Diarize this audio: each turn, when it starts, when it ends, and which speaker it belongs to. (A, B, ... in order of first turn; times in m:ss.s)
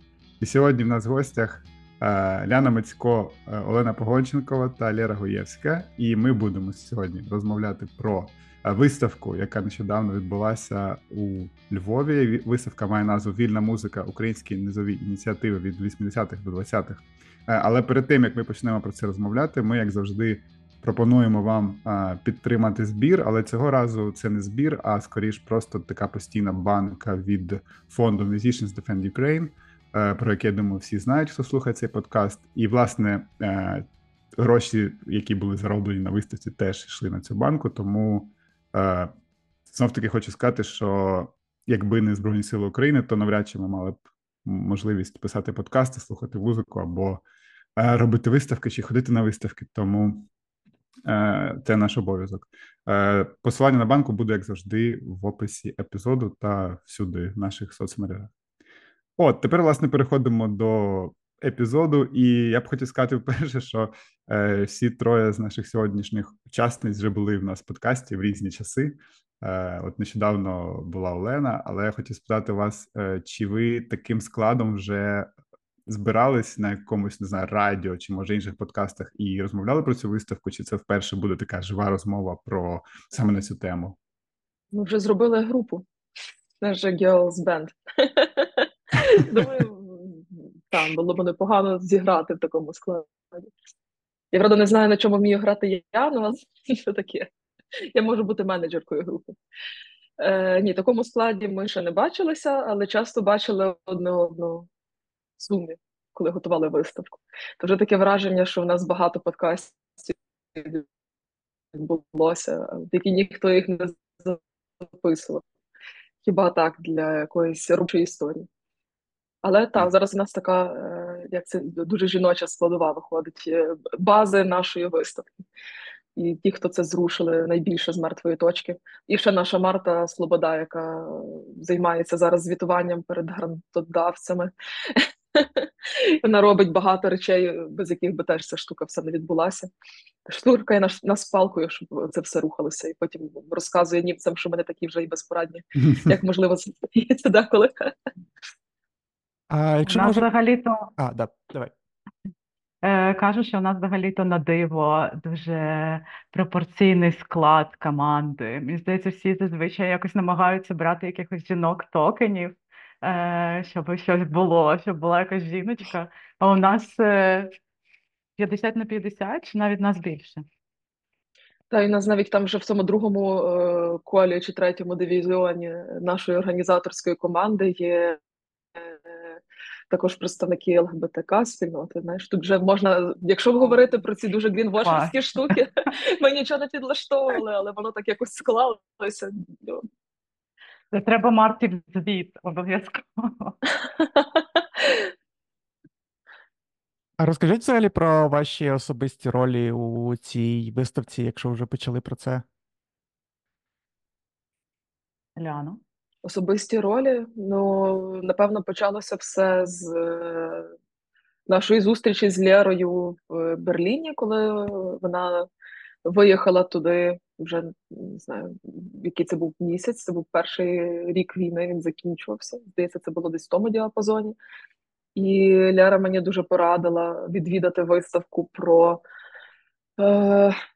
0:00.4-0:33.9 A
0:34.4-0:39.1 A
0:39.7-0:47.2 A
0:47.8-0:50.2 A
0:51.1-0:58.3 A
0:59.2-1:15.3 A
1:15.9-1:24.0 A
1:24.7-1:25.8 B
1:26.6-1:33.5 B
1:34.3-1:37.3 B
1:37.9-1:39.3 B
1:40.2-1:44.7 B
1:45.4-1:50.8 B
1:51.7-1:55.4 B
1:56.2-1:58.5 B
1:59.4-2:05.3 B
2:06.2-2:19.7 B
2:20.2-2:27.9 B
2:29.5-2:30.3 C
2:29.8-2:30.9 D
2:31.0-2:31.7 C
2:32.8-2:47.5 D
2:48.4-2:50.4 D
2:51.7-2:58.2 B
2:58.8-2:59.4 B
2:59.9-3:09.9 B
3:04.8-3:05.6 D
3:10.9-3:13.6 D
3:17.2-3:22.4 C
3:25.4-3:25.8 D
3:26.2-3:30.7 B
3:31.5-3:35.5 B
3:36.1-3:44.4 B
3:45.2-3:49.0 B
3:50.0-3:50.6 B